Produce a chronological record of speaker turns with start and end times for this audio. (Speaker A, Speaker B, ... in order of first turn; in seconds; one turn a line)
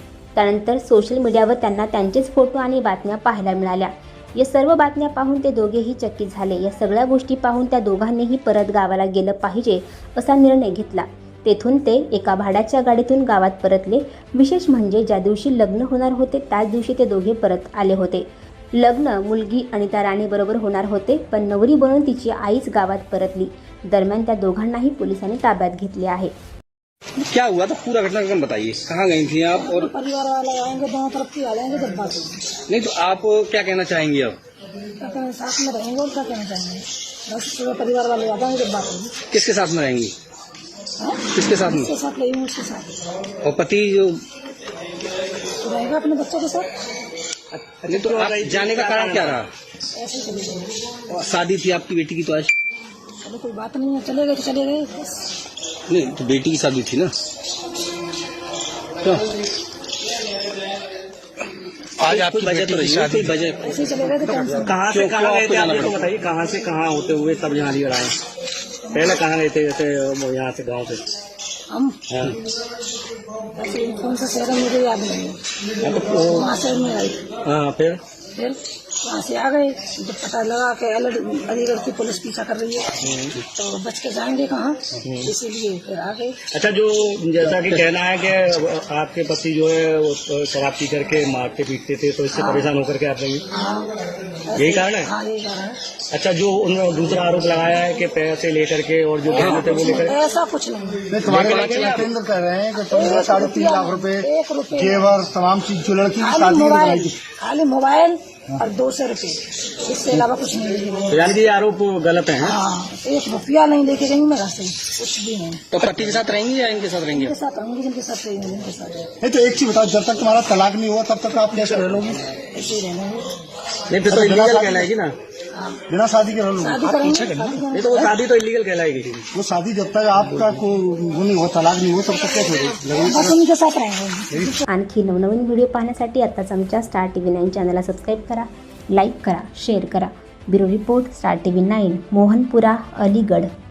Speaker A: 0.4-26.3
Speaker B: 27.2-29.9
Speaker C: 29.5-32.6
Speaker B: 32.7-34.4
Speaker C: 35.0-39.2
Speaker B: 39.3-40.1
Speaker C: 41.0-43.0
Speaker B: 41.3-41.9
Speaker B: 43.4-44.2
Speaker C: 45.6-46.7
Speaker D: 47.5-49.4
Speaker B: 47.9-49.5
Speaker C: 50.0-50.7
Speaker B: 51.1-52.5
Speaker C: 53.2-55.3
Speaker B: 55.9-57.1
Speaker B: 62.0-66.1
Speaker D: 62.1-63.3
Speaker C: 63.6-64.8
Speaker D: 64.6-68.2
Speaker D: 68.9-71.0
Speaker C: 71.7-72.0
Speaker D: 72.1-72.4
Speaker C: 73.6-75.4
Speaker D: 75.8-76.5
Speaker C: 76.3-77.3
Speaker D: 77.4-78.0
Speaker C: 78.4-83.0
Speaker D: 83.0-83.4
Speaker C: 83.5-86.4
Speaker D: 85.0-85.3
Speaker D: 86.5-93.4
Speaker C: 92.4-92.7
Speaker C: 93.5-93.9
Speaker C: 94.5-95.8
Speaker D: 94.5-95.1
Speaker D: 96.1-100.1
Speaker C: 99.3-101.1
Speaker B: 99.4-99.8
Speaker E: 101.1-107.2
Speaker D: 101.3-102.1
Speaker B: 101.3-102.0
Speaker C: 102.8-105.2
Speaker C: 106.2-111.2
Speaker D: 111.1-112.5
Speaker C: 112.4-115.7
Speaker B: 115.7-117.3
Speaker C: 117.1-119.1
Speaker E: 119.2-122.2
Speaker C: 122.5-123.3
Speaker D: 123.9-125.2
Speaker E: 124.1-124.9
Speaker C: 125.5-125.8
Speaker E: 125.9-127.6
Speaker C: 126.6-128.1
Speaker D: 127.7-129.2
Speaker E: 129.3-133.4
Speaker C: 132.9-134.6
Speaker A: 134.7-143.5